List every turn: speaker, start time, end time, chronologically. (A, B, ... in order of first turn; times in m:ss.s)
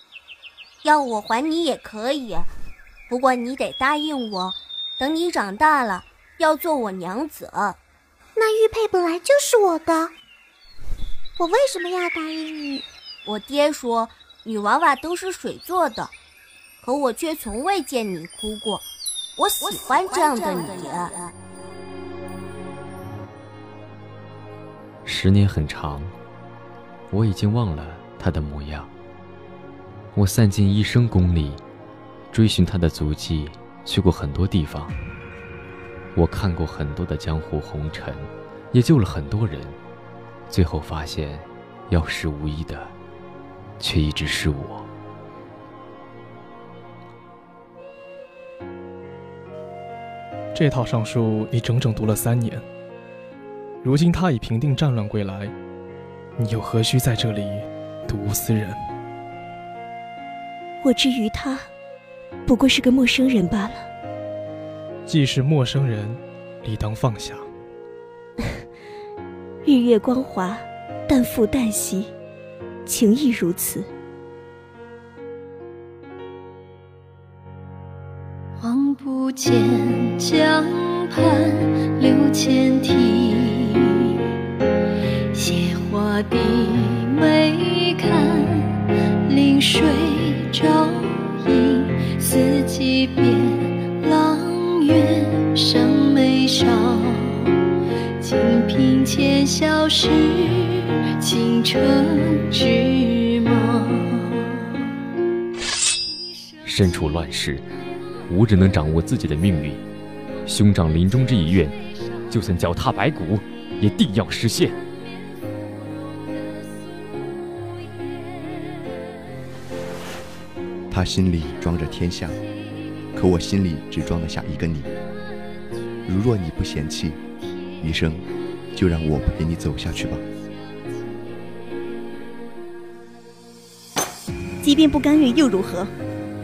0:00.8-0:02.5 A
0:03.1-0:07.8 A
0:08.4-0:10.1 B
0:11.4-0:12.8 B
0:13.3-0:16.1 A
0:16.8-0:18.8 A
0:19.4-0:21.3 A
0:19.6-0:20.7 B
0:25.0-0:26.1 C
0:27.1-0:28.9 C
0:30.2-0:31.6 C
0:32.3-0:35.0 C
0:36.2-0:39.8 C
0:40.5-0:42.9 C
0:43.8-0:44.9 C
0:50.5-0:52.6 D
0:53.8-0:55.5 D
0:56.4-0:58.9 D
1:00.8-1:01.7 E
1:02.5-1:03.9 E
1:05.1-1:07.5 D
1:09.6-1:12.1 E
1:12.9-1:13.9 E
1:18.6-1:20.6 F
1:22.0-1:23.3 F
1:25.4-1:28.2 F
1:29.3-1:30.9 F
1:32.2-1:33.4 F
1:34.0-1:36.9 F
1:38.2-1:40.2 F
1:46.6-1:47.7 C
1:48.3-1:49.8 C
1:50.5-1:51.8 C
1:52.3-1:54.8 C
2:00.9-2:02.4 G
2:03.1-2:04.9 G
2:06.0-2:07.2 G
2:07.8-2:10.2 G
2:14.6-2:15.9 E